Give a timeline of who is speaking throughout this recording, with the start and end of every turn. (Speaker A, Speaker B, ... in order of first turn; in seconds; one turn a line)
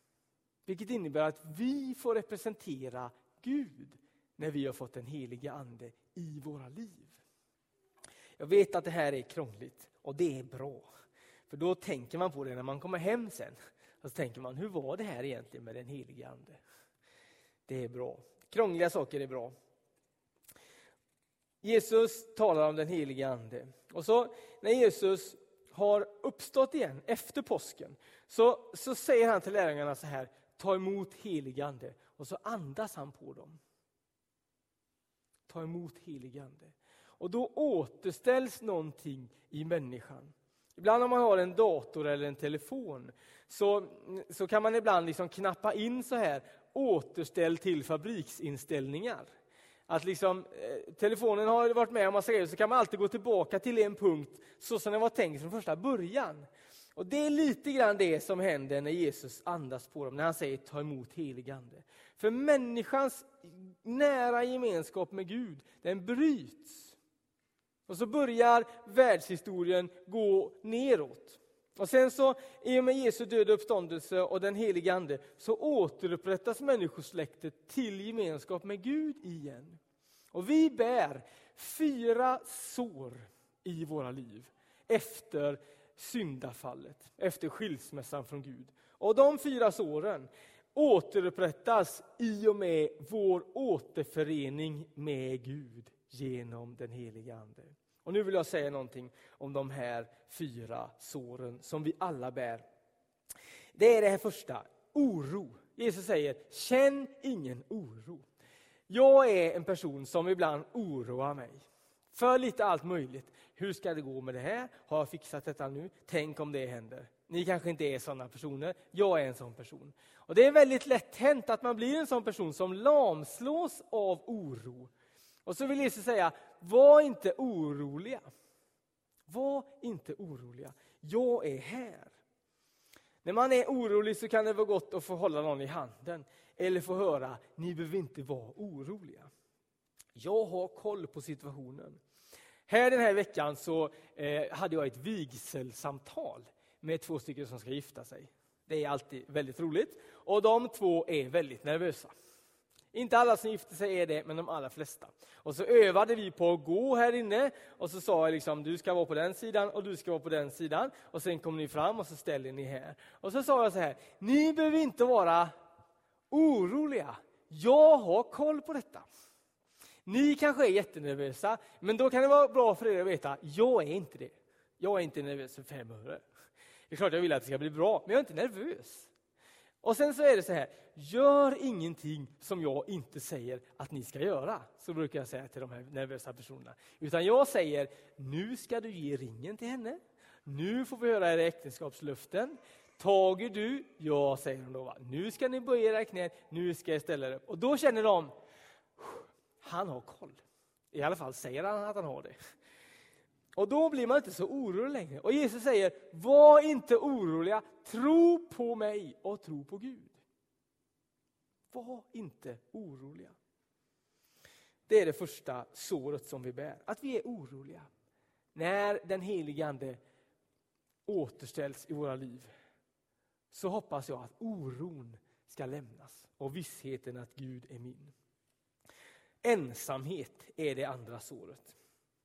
Speaker A: 0.7-7.2
Speaker A: 8.4-10.9
Speaker A: 11.5-16.6
Speaker A: 17.7-19.6
Speaker A: 21.6-33.6
Speaker A: 35.5-49.3
Speaker A: 49.9-67.0
Speaker A: 67.9-79.8
Speaker A: 80.3-102.6
Speaker A: 103.8-108.3
Speaker A: 108.9-111.6
Speaker A: 112.1-124.9
Speaker A: 125.5-128.2
Speaker A: 129.3-132.1
Speaker A: 133.2-139.3
Speaker A: 140.2-142.0
Speaker A: 142.7-152.1
Speaker A: 152.9-165.5
Speaker A: 166.3-169.1
Speaker A: 170.1-176.2
Speaker A: 176.9-179.1
Speaker A: 179.8-198.3
Speaker A: 199.0-202.3
Speaker A: 203.6-210.2
Speaker A: 211.7-213.4
Speaker A: 214.9-217.9
Speaker A: 218.6-220.0
Speaker A: 221.1-222.5
Speaker A: 223.5-228.1
Speaker A: 229.4-231.8